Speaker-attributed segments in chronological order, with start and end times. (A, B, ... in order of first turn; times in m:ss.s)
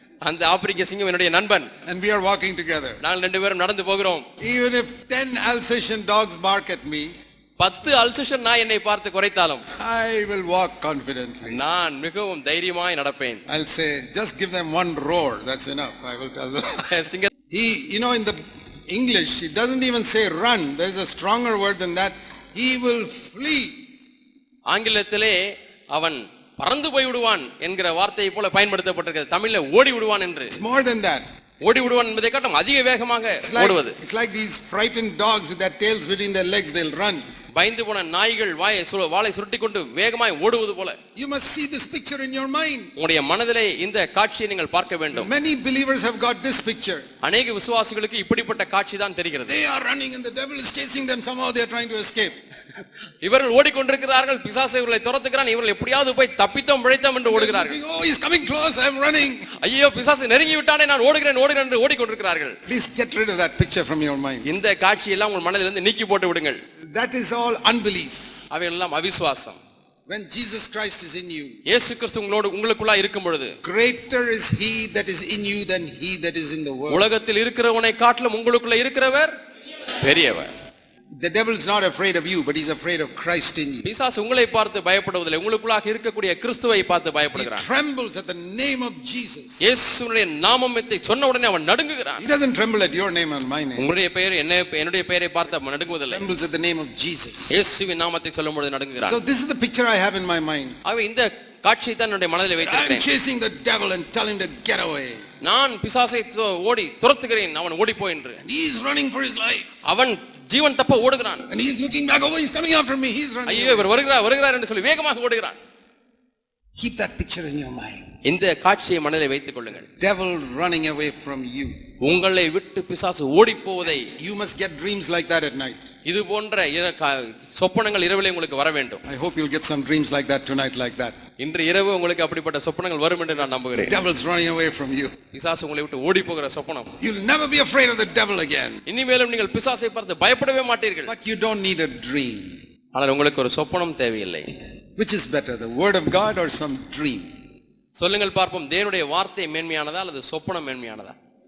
0:00.2-0:01.7 A
0:01.8-0:03.0 B
0:03.0-0:04.2 A
0:04.4-0:07.1 B
0:07.6-0:09.6 A
0:09.8-0:11.6 B
0:11.5-0:13.4 A
0:13.5-0:16.9 B
0:16.9-0:17.3 A
0:17.5-0:18.4 B
0:18.9-0:23.7 B
0:24.7-0:25.4 A
0:25.9-0:30.6 A
0:30.5-0:31.2 B
0:31.6-0:34.0 A
0:33.4-0:37.2 B
0:37.6-0:41.0 A
0:41.2-0:42.9 B
0:43.0-0:45.3 A
0:45.1-0:47.0 B
0:47.2-0:49.6 A
0:49.5-0:52.4 B
0:53.2-0:57.8 A
0:57.2-0:59.5 B
0:59.6-1:02.6 A
1:02.7-1:04.4 B
1:04.4-1:06.6 A
1:06.9-1:08.2 B
1:08.5-1:09.6 A
1:10.1-1:11.6 B
1:11.7-1:13.6 A
1:13.6-1:17.1 B
1:16.9-1:19.3 A
1:20.0-1:20.5 A
1:21.2-1:23.9 B
1:23.8-1:27.6 A
1:27.4-1:29.6 B
1:29.6-1:32.3 A
1:32.2-1:33.9 B
1:33.8-1:36.2 A
1:36.1-1:37.5 B
1:37.5-1:39.2 A
1:39.0-1:40.8 B
1:40.8-1:43.1 A
1:42.6-1:45.2 B
1:45.4-1:48.4 A
1:48.4-1:49.7 B
1:49.9-1:51.4 A
1:51.5-1:53.9 B
1:53.5-1:55.6 A
1:56.8-1:58.0 B
1:58.2-1:59.9 A
2:00.0-2:01.8 B
2:02.0-2:04.1 A
2:04.2-2:05.9 B
2:06.1-2:09.0 A
2:09.1-2:11.2 B
2:11.4-2:14.0 A
2:13.8-2:15.2 B
2:15.3-2:16.9 A
2:17.0-2:18.8 B
2:18.9-2:21.1 A
2:21.1-2:22.6 B
2:22.9-2:24.5 A
2:25.0-2:27.3 B
2:28.0-2:31.2 A